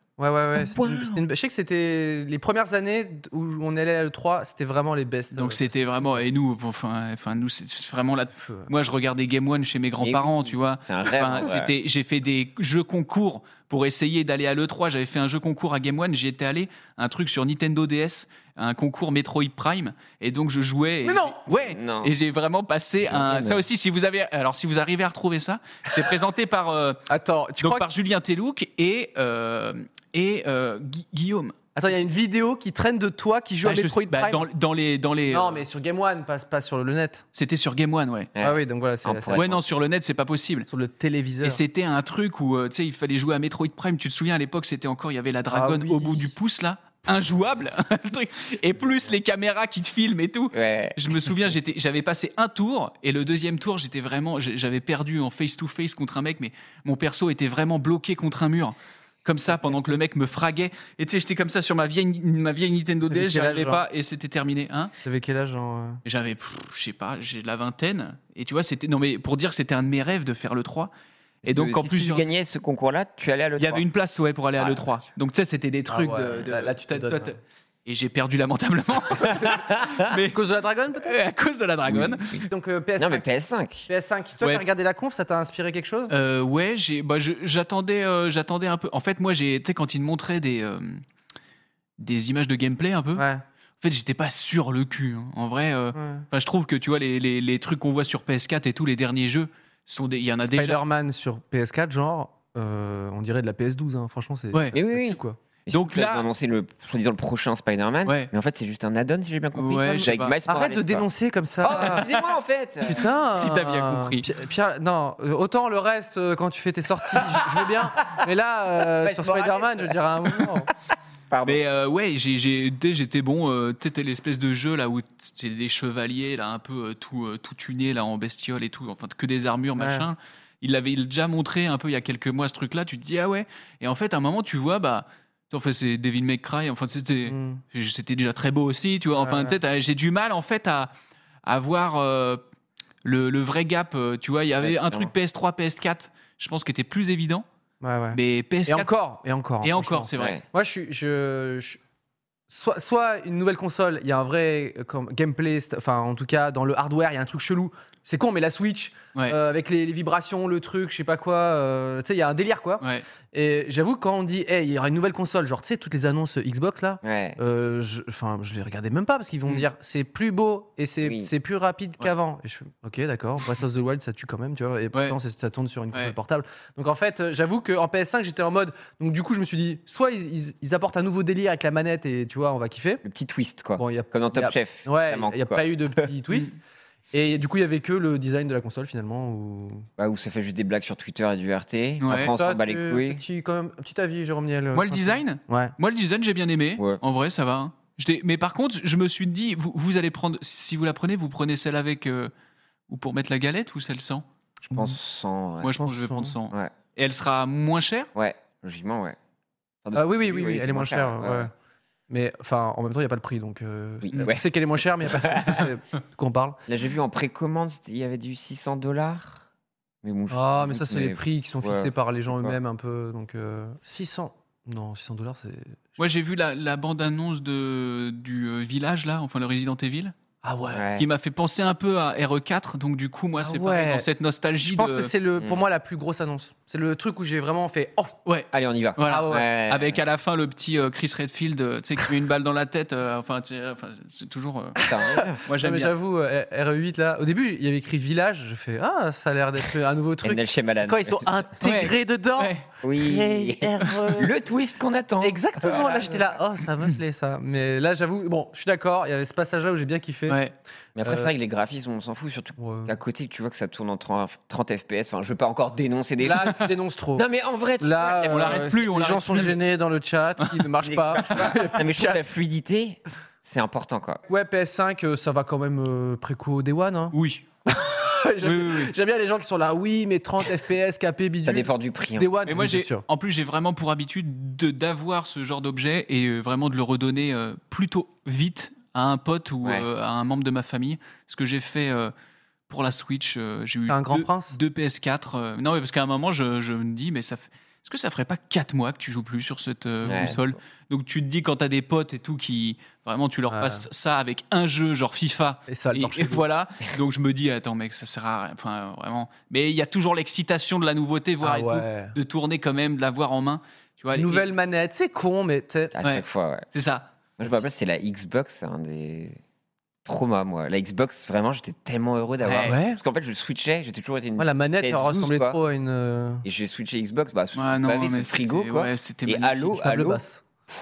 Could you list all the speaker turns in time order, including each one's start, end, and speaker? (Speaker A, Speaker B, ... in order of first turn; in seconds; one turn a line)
Speaker A: 0.2-6.3
Speaker B: 0.6-1.2
Speaker C: 5.3-27.0
Speaker A: 8.4-8.7
Speaker B: 10.0-11.7
Speaker A: 21.0-21.4
Speaker B: 21.5-22.1
Speaker B: 23.1-23.6
Speaker A: 27.1-27.9
Speaker C: 27.6-31.6
Speaker A: 31.8-34.4
Speaker C: 33.6-35.6
Speaker A: 35.3-37.2
Speaker C: 37.3-38.3
Speaker B: 38.4-39.6
Speaker A: 38.4-39.4
Speaker C: 39.3-40.7
Speaker A: 40.7-41.6
Speaker C: 41.4-64.9
Speaker A: 45.5-46.3
Speaker B: 50.5-51.1
Speaker A: 63.1-63.8
Speaker A: 65.0-66.0
Speaker C: 66.1-70.9
Speaker B: 71.4-73.9
Speaker C: 71.5-72.2
Speaker C: 73.6-80.4
Speaker B: 74.6-74.9
Speaker A: 75.9-77.3
Speaker A: 80.1-81.2
Speaker C: 81.0-82.5
Speaker B: 81.9-82.5
Speaker A: 82.5-83.2
Speaker B: 83.0-83.9
Speaker A: 83.9-86.1
Speaker C: 86.1-91.0
Speaker C: 92.0-93.3
Speaker A: 93.2-93.4
Speaker C: 93.8-100.8
Speaker A: 96.0-96.2
Speaker A: 100.4-105.4
Speaker B: 104.7-111.1
Speaker C: 105.7-106.3
Speaker C: 109.5-110.4
Speaker A: 110.5-112.1
Speaker B: 111.6-113.1
Speaker A: 112.8-120.7
Speaker C: 113.3-114.3
Speaker B: 118.9-120.0
Speaker B: 121.3-121.6
Speaker C: 121.5-140.9
Speaker A: 129.8-130.1
Speaker A: 137.3-137.6
Speaker A: 139.1-139.6
Speaker C: 141.4-142.4
Speaker C: 143.0-147.4
Speaker B: 144.6-145.1
Speaker A: 147.8-151.8
Speaker C: 148.1-148.9
Speaker C: 149.6-150.4
Speaker B: 150.2-150.4
Speaker A: 152.5-183.0
Speaker B: 167.0-167.4
Speaker B: 171.0-171.3
Speaker B: 183.0-186.1
Speaker A: 183.8-186.6
Speaker A: 187.1-189.9
Speaker B: 190.0-193.2
Speaker C: 192.0-192.3
Speaker A: 192.3-195.7
Speaker C: 194.7-202.3
Speaker C: 202.9-204.2
Speaker B: 204.7-205.8
Speaker C: 205.6-208.1
Speaker A: 205.8-206.3
Speaker B: 208.2-209.2
Speaker B: 209.8-211.5
Speaker A: 209.9-211.5
Speaker A: 212.1-216.6
Speaker B: 214.0-214.4
Speaker B: 215.1-215.6
Speaker B: 216.7-219.4
Speaker B: 220.0-222.6
Speaker A: 220.3-225.8
Speaker C: 226.0-230.1
Speaker A: 230.4-230.9
Speaker B: 230.7-231.1
Speaker C: 231.0-235.1
Speaker A: 233.4-234.1
Speaker A: 234.7-238.2
Speaker B: 235.4-235.7
Speaker C: 238.3-244.8
Speaker B: 238.5-240.0
Speaker A: 239.1-239.5
Speaker B: 244.8-245.5
Speaker A: 244.9-254.3
Speaker C: 245.5-245.9
Speaker B: 250.2-251.5
Speaker C: 251.6-252.6
Speaker B: 252.8-256.3
Speaker A: 255.2-260.4
Speaker C: 260.3-260.5
Speaker B: 261.0-268.7
Speaker A: 261.1-261.3
Speaker A: 262.6-262.9
Speaker A: 266.2-267.2
Speaker A: 267.8-272.2
Speaker C: 268.2-269.6
Speaker B: 270.8-274.2
Speaker A: 274.3-277.1
Speaker C: 277.1-277.4
Speaker A: 277.7-283.0
Speaker C: 278.4-278.9
Speaker B: 281.4-282.4
Speaker C: 282.4-292.1
Speaker C: 292.7-314.5
Speaker A: 293.9-294.6
Speaker B: 300.0-300.6
Speaker A: 303.5-303.9
Speaker A: 305.7-306.4
Speaker A: 311.4-312.1
Speaker A: 314.1-316.0
Speaker B: 315.9-316.7
Speaker C: 316.0-317.1
Speaker B: 317.4-319.4
Speaker B: 320.1-325.6
Speaker C: 322.4-322.8
Speaker A: 322.6-323.0
Speaker A: 324.4-326.4
Speaker B: 326.4-330.2
Speaker C: 327.6-329.8
Speaker A: 329.8-330.4